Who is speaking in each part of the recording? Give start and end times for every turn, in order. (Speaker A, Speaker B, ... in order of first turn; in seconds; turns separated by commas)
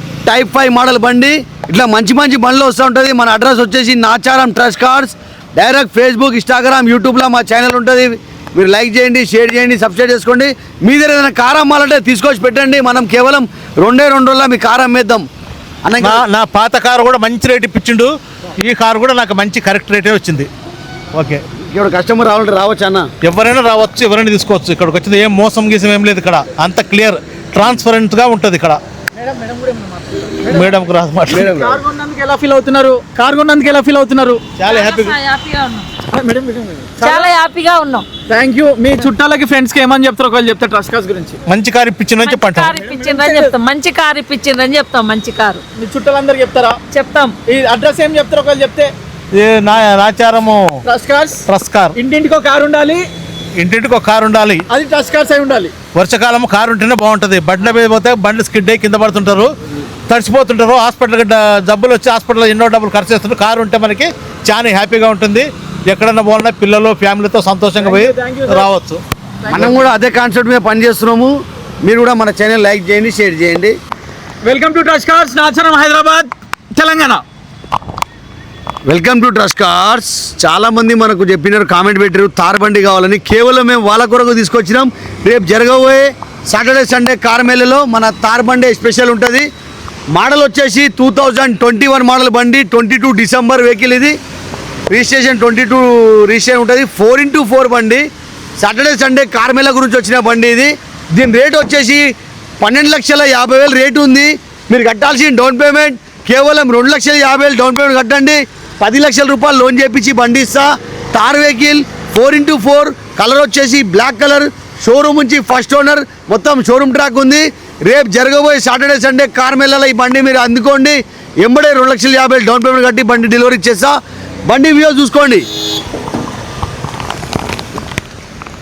Speaker A: 0.2-15.2, Speaker A: 15.8-16.2, Speaker B: 16.0-20.5, Speaker B: 21.1-21.4, Speaker A: 21.6-23.1, Speaker B: 23.2-28.8, Speaker C: 29.2-35.0, Speaker B: 30.5-31.5, Speaker A: 31.3-31.8, Speaker B: 34.6-35.2, Speaker D: 34.7-35.9, Speaker C: 36.0-37.3, Speaker D: 37.0-38.1, Speaker C: 38.3-41.4, Speaker B: 41.5-42.8, Speaker D: 42.2-45.6, Speaker C: 42.8-43.6, Speaker C: 45.7-46.8, Speaker D: 46.9-47.3, Speaker C: 47.4-48.9, Speaker B: 49.4-50.8, Speaker C: 50.9-53.1, Speaker B: 51.5-51.9, Speaker B: 53.6-54.6, Speaker C: 54.7-55.7, Speaker B: 55.9-59.5, Speaker B: 60.1-69.0, Speaker C: 67.8-68.7, Speaker C: 69.5-69.9, Speaker A: 69.5-73.8, Speaker C: 74.4-77.2, Speaker A: 78.9-89.5, Speaker A: 90.1-94.2, Speaker A: 94.9-98.1, Speaker A: 98.6-102.1, Speaker A: 102.6-125.5